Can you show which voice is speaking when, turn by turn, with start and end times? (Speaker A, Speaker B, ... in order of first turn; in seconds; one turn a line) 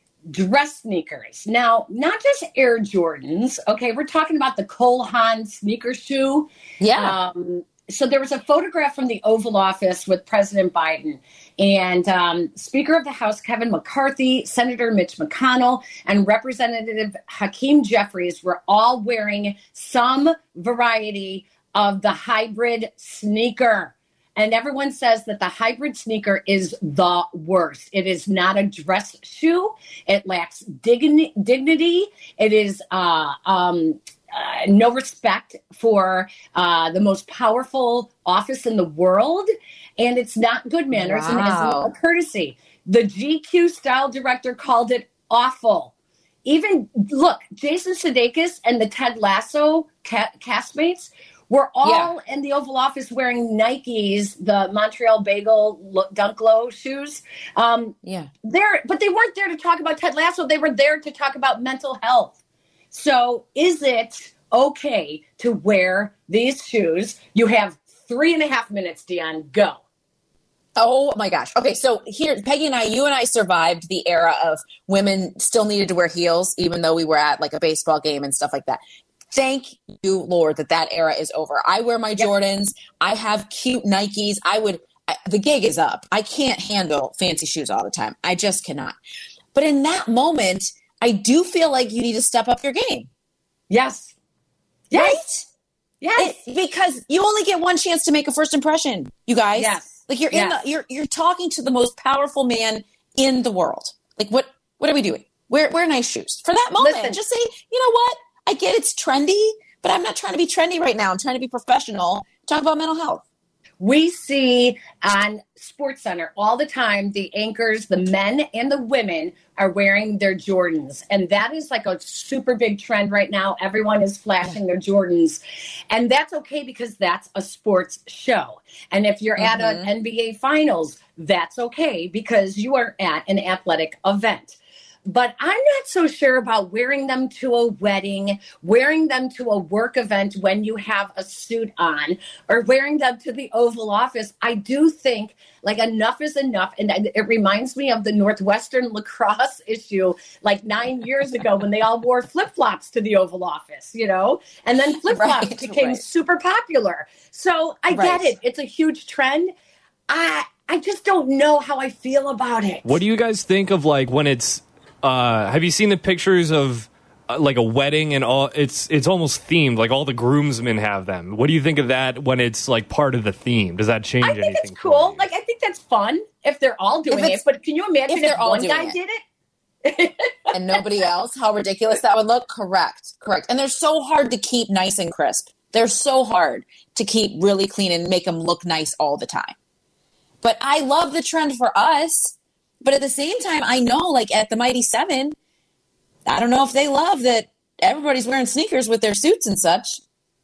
Speaker A: 0.3-45.9
Speaker B: 6.8-7.2
Speaker B: 40.9-41.9
Speaker A: 46.4-62.4
Speaker B: 51.8-52.1
Speaker B: 58.0-58.3
Speaker A: 62.9-69.8
Speaker B: 70.8-89.0
Speaker B: 89.5-93.1
Speaker A: 93.7-94.1
Speaker A: 94.9-95.2
Speaker B: 94.9-95.5
Speaker A: 96.0-96.4
Speaker B: 96.2-113.2
Speaker A: 99.5-100.6
Speaker A: 106.8-107.2
Speaker A: 113.8-159.5
Speaker B: 129.4-129.9
Speaker B: 155.1-156.0
Speaker B: 157.9-158.3
Speaker A: 160.1-162.9
Speaker C: 162.8-175.3
Speaker A: 174.2-179.2
Speaker B: 177.1-177.4
Speaker B: 178.1-179.0
Speaker A: 179.8-180.6
Speaker B: 180.5-189.6
Speaker B: 190.4-195.3
Speaker B: 196.2-200.0